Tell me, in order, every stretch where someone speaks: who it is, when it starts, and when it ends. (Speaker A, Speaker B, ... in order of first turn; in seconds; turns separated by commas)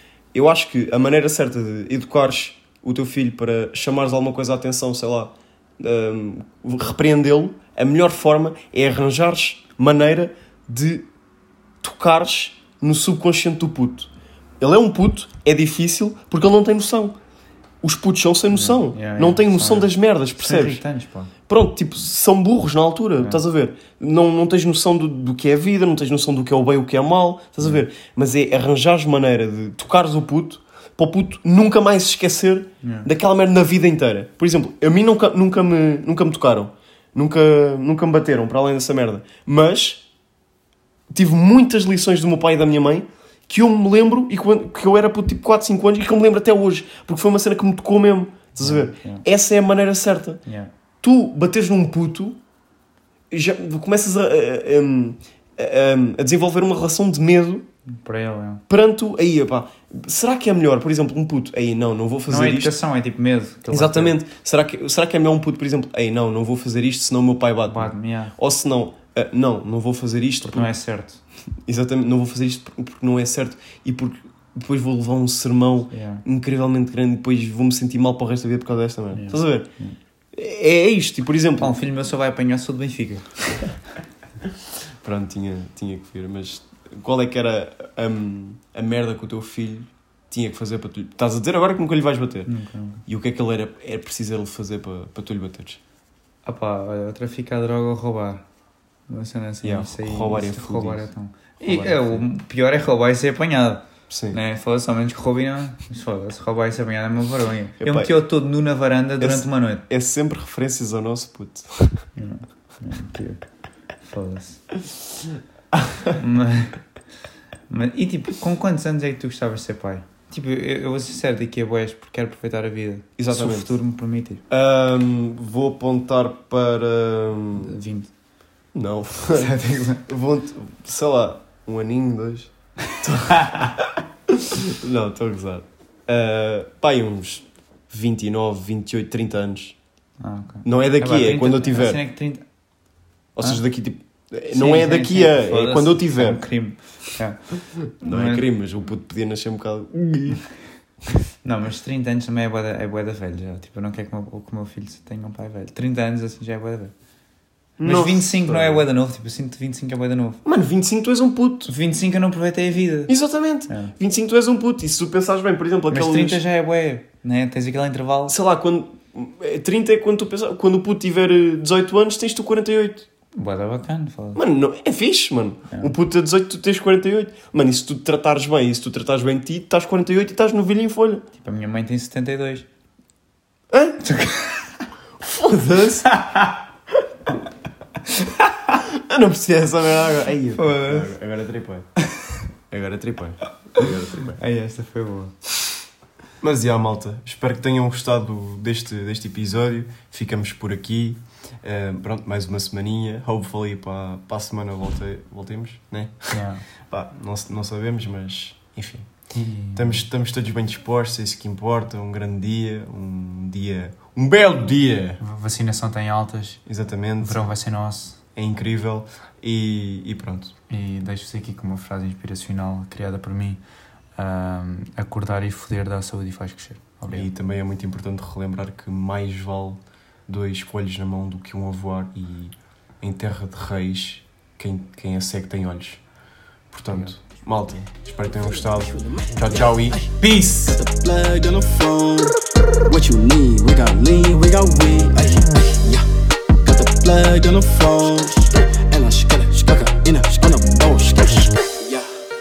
Speaker A: 0.3-11.1, Speaker A: 11.8-17.1, Speaker A: 17.8-20.8, Speaker B: 18.5-21.3, Speaker A: 21.5-40.0, Speaker B: 32.8-33.1, Speaker A: 41.1-50.4, Speaker B: 48.6-49.2, Speaker B: 50.4-50.7, Speaker A: 51.0-52.4, Speaker A: 53.3-57.6, Speaker B: 58.0-58.6, Speaker A: 58.7-62.7, Speaker B: 62.3-64.2, Speaker A: 63.7-70.7, Speaker B: 67.7-68.3, Speaker B: 70.4-71.2, Speaker A: 71.6-79.7, Speaker B: 75.9-76.2, Speaker B: 79.1-80.0, Speaker A: 80.3-81.8, Speaker B: 81.6-83.7, Speaker A: 85.0-92.5, Speaker B: 92.5-93.0, Speaker A: 93.0-95.8, Speaker B: 96.4-98.5, Speaker B: 99.1-109.8, Speaker A: 99.6-101.1, Speaker A: 101.6-102.2, Speaker A: 104.1-104.4, Speaker A: 107.8-108.1, Speaker A: 109.2-112.0, Speaker B: 112.1-113.5, Speaker B: 114.0-114.7, Speaker B: 116.2-116.8, Speaker B: 117.7-124.4, Speaker A: 123.2-123.8, Speaker A: 124.5-127.7, Speaker B: 127.5-128.1, Speaker A: 128.7-133.9, Speaker B: 129.3-130.0, Speaker A: 134.7-139.8, Speaker B: 140.2-142.5, Speaker A: 140.6-142.0, Speaker A: 143.3-146.9, Speaker B: 144.5-148.5, Speaker A: 148.0-150.5, Speaker B: 151.4-156.9, Speaker A: 157.8-158.8, Speaker B: 157.8-160.4, Speaker A: 160.4-161.7, Speaker B: 161.7-163.1, Speaker A: 163.1-166.4, Speaker B: 163.7-163.9, Speaker B: 165.9-168.3, Speaker A: 168.3-173.1, Speaker B: 173.3-174.4, Speaker A: 174.3-181.2, Speaker B: 175.7-175.9, Speaker B: 181.4-182.7, Speaker A: 183.7-184.0, Speaker B: 184.0-184.8, Speaker A: 185.2-186.1, Speaker B: 186.1-186.6, Speaker A: 188.9-191.9, Speaker B: 190.6-191.1, Speaker A: 192.7-194.4, Speaker B: 193.7-195.3, Speaker A: 196.4-215.2, Speaker B: 206.3-206.6, Speaker B: 209.3-210.0, Speaker B: 215.2-216.7, Speaker A: 216.7-217.5, Speaker B: 217.2-218.2, Speaker A: 218.3-220.5, Speaker B: 220.7-223.6, Speaker B: 224.1-227.3, Speaker A: 227.1-236.1, Speaker A: 236.7-240.8, Speaker C: 238.3-246.1, Speaker C: 246.6-252.1